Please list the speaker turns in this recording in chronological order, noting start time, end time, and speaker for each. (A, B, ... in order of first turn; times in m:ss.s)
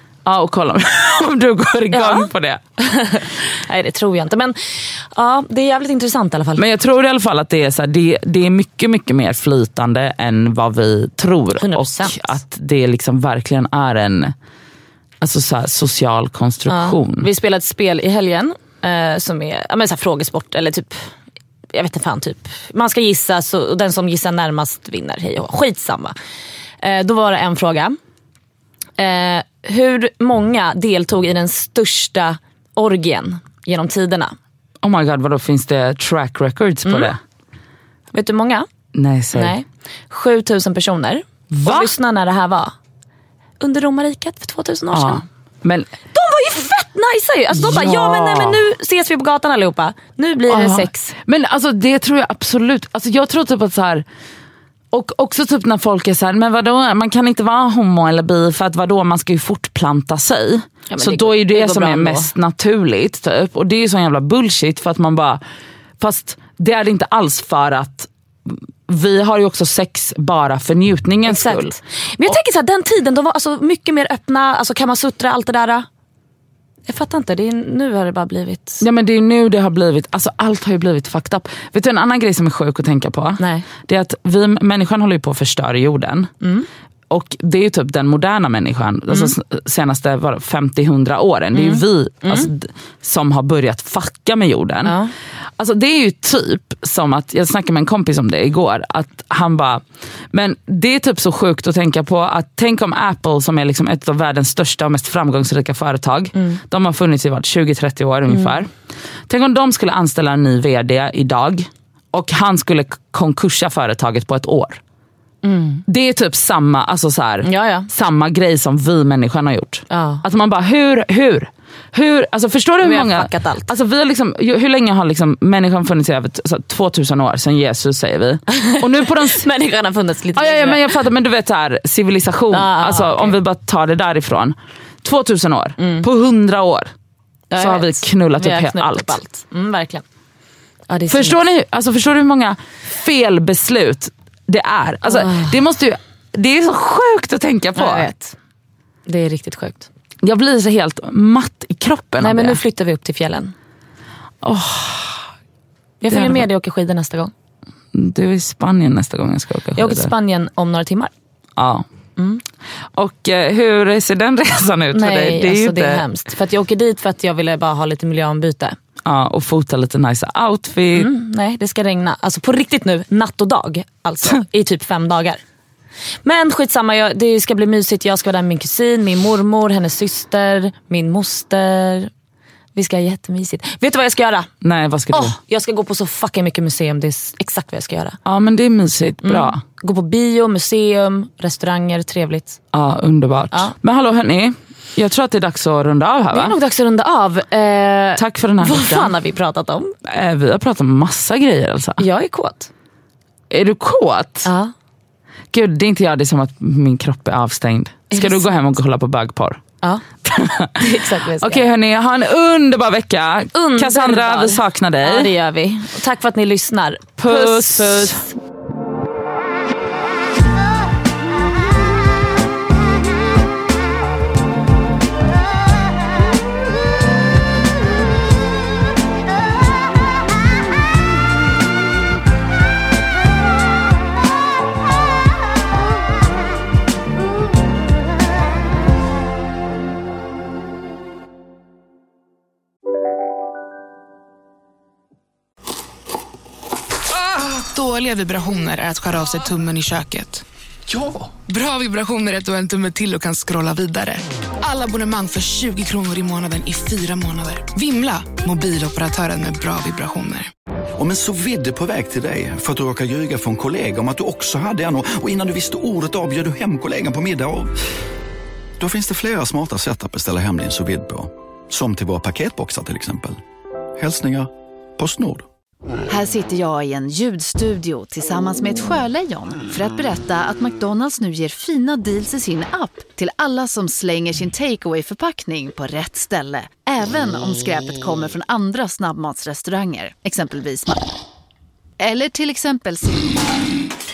0:00.2-0:02.6 A
0:01.9-0:06.6 B
0:06.6-0:14.3 A
0:11.6-0:12.4 B
0:15.2-0:17.3 A
0:16.7-0:21.1 B
0:21.7-0:26.1 B
0:26.8-0:28.0 B
0:29.0-0:34.3 B
0:34.8-0:37.2 A
0:36.9-0:37.1 B
0:38.1-0:38.7 B
0:38.9-0:39.6 A
0:39.3-0:42.7 B
0:41.5-0:41.9 A
0:43.6-0:45.2 B
0:44.9-0:45.9 A
0:46.1-0:51.1 B
0:47.5-0:48.6 A
0:50.5-0:54.0 A
0:54.9-1:05.4 A
1:00.9-1:02.3 B
1:06.0-1:12.4 A
1:11.2-1:15.9 B
1:16.9-1:18.8 B
1:18.8-1:26.3 A
1:23.4-1:23.7 B
1:26.4-1:26.7 B
1:27.1-1:35.0 A
1:31.5-1:32.5 B
1:34.8-1:35.1 B
1:35.6-1:48.7 A
1:49.3-1:54.8 A
1:55.4-1:55.8 B
1:55.9-2:09.4 A
1:57.4-1:57.9 B
1:59.9-2:00.2 B
2:02.8-2:03.7 B
2:08.6-2:10.9 B
2:10.3-2:16.9 A
2:12.5-2:13.4 B
2:15.8-2:16.1 B
2:17.5-2:20.0 B
2:17.6-2:19.2 A
2:20.9-2:21.4 B
2:21.1-2:28.1 A
2:25.1-2:25.5 B
2:27.7-2:28.4 B
2:29.1-2:29.9 B
2:30.2-2:32.6 A
2:32.2-2:33.5 B
2:34.4-2:35.2 A
2:36.0-2:37.3 B
2:36.1-2:36.4 A
2:37.9-2:40.1 A
2:39.7-2:41.1 B
2:41.6-2:41.9 A
2:42.2-2:42.4 B
2:42.9-2:46.0 A
2:44.9-2:48.8 B
2:49.0-2:51.1 A
2:50.9-2:55.4 B
2:56.2-3:02.1 B
3:02.7-3:04.5 B
3:04.6-3:05.4 A
3:05.1-3:08.2 B
3:08.2-3:09.6 A
3:09.2-3:12.6 B
3:12.7-3:16.6 A
3:16.3-3:19.9 B
3:18.2-3:19.1 A
3:20.0-3:22.0 A
3:22.0-3:22.7 B
3:23.5-3:24.5 A
3:24.4-3:24.7 B
3:25.5-3:29.6 A
3:28.1-3:28.5 B
3:30.2-3:35.3 A
3:30.7-3:31.7 B
3:33.5-3:38.3 B
3:37.2-3:38.2 A
4:07.6-4:10.4 C
4:11.5-4:20.5 C
4:21.0-4:27.7 D
4:28.8-4:33.4 D
4:34.0-4:35.4 D
4:36.1-4:51.0 E
4:52.0-4:53.5 E